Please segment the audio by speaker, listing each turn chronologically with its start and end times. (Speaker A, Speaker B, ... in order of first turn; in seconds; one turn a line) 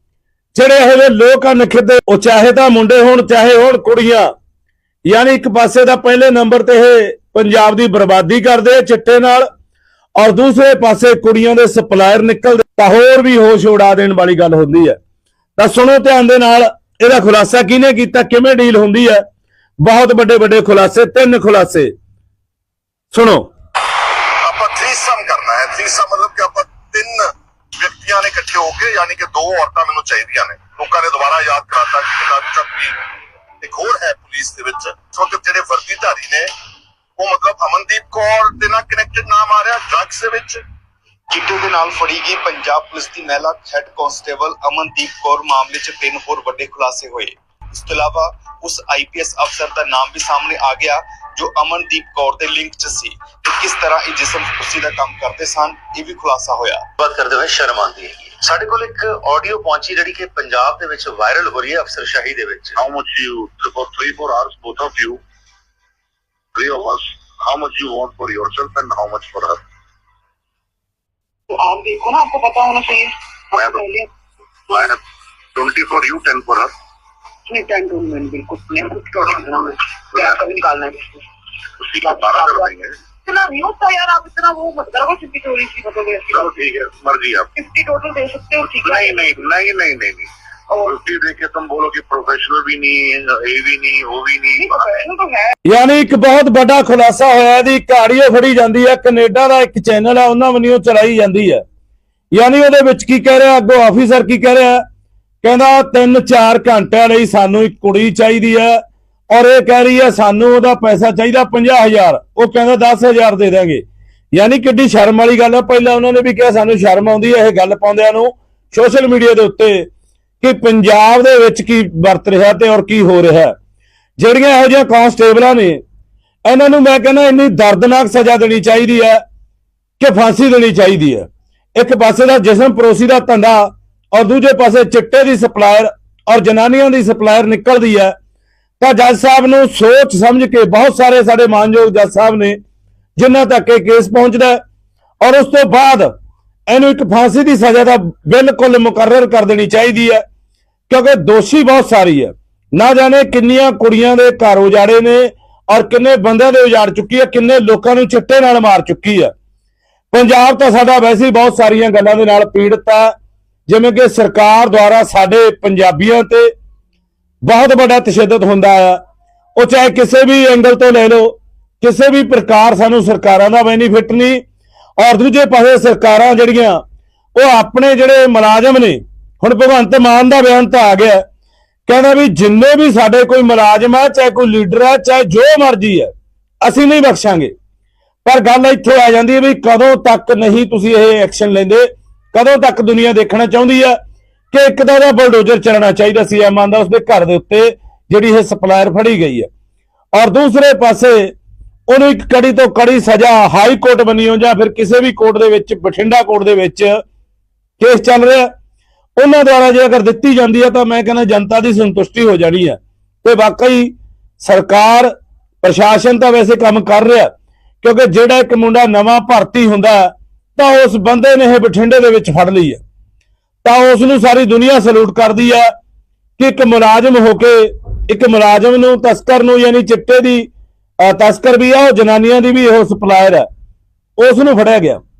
Speaker A: 0.5-4.3
Speaker A: 5.0-9.5
Speaker A: 10.2-15.0
Speaker A: 15.6-19.2
Speaker A: 19.8-21.9
Speaker A: 23.1-23.5
Speaker B: 24.4-32.9
Speaker B: 33.6-36.5
Speaker B: 37.2-40.6
Speaker C: 41.3-56.9
Speaker D: 57.0-62.8
Speaker B: 62.7-65.2
Speaker B: 66.5-69.6
Speaker E: 71.5-74.1
Speaker E: 74.7-75.0
Speaker B: 75.5-76.7
Speaker E: 77.5-81.2
Speaker B: 81.8-82.9
Speaker E: 82.0-82.7
Speaker E: 83.2-86.6
Speaker B: 86.3-87.5
Speaker E: 87.5-89.3
Speaker B: 88.8-95.0
Speaker E: 94.5-95.5
Speaker A: 95.7-101.6
Speaker A: 102.3-104.8
Speaker A: 105.4-108.8
Speaker A: 109.3-119.9
Speaker A: 120.4-123.5
Speaker A: 124.2-125.8
Speaker A: 126.4-129.2
Speaker A: 130.0-138.1
Speaker A: 138.8-142.6
Speaker A: 143.2-144.6
Speaker A: 145.2-146.1
Speaker A: 146.7-150.2
Speaker A: 150.9-159.3
Speaker A: 160.1-163.1
Speaker A: 163.7-166.5
Speaker A: 167.4-169.0
Speaker A: 169.6-174.4
Speaker A: 175.0-176.8
Speaker A: 177.3-181.2
Speaker A: 181.9-186.1
Speaker A: 186.6-187.5
Speaker A: 188.2-194.0
Speaker A: 194.5-199.5
Speaker A: 200.1-201.3
Speaker A: 201.9-207.0
Speaker A: 207.8-208.5
Speaker A: 209.2-215.1
Speaker A: 215.6-217.3
Speaker A: 217.8-222.8
Speaker A: 223.6-225.7
Speaker A: 226.4-233.5
Speaker A: 234.2-235.0